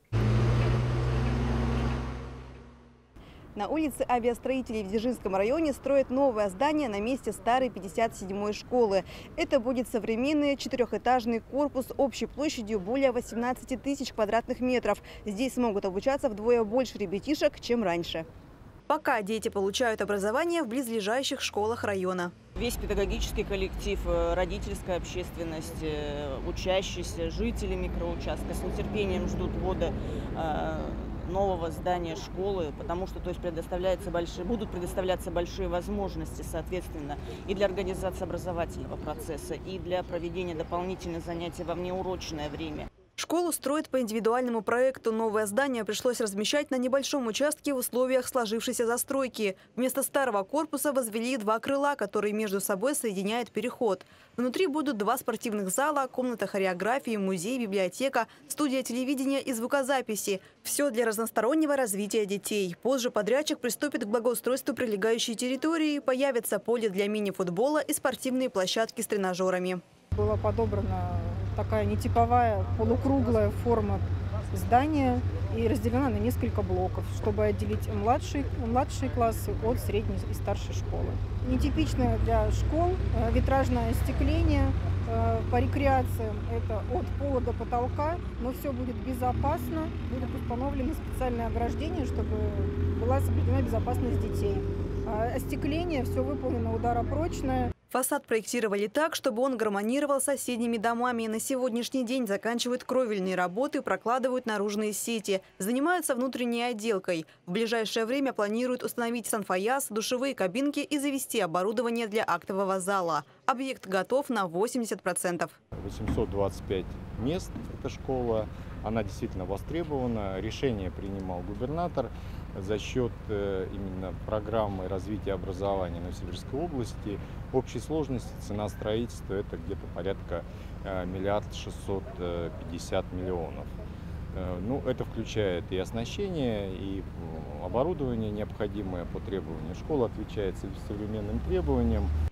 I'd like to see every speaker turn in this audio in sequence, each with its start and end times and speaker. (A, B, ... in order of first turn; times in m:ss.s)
0:03.5-0:18.3 A
0:18.9-0:22.3 A
0:22.5-0:42.9 B
0:43.2-1:09.8 A
1:10.1-1:37.6 C
1:37.9-1:55.6 A
1:55.8-2:13.7 D
2:14.3-2:22.1 D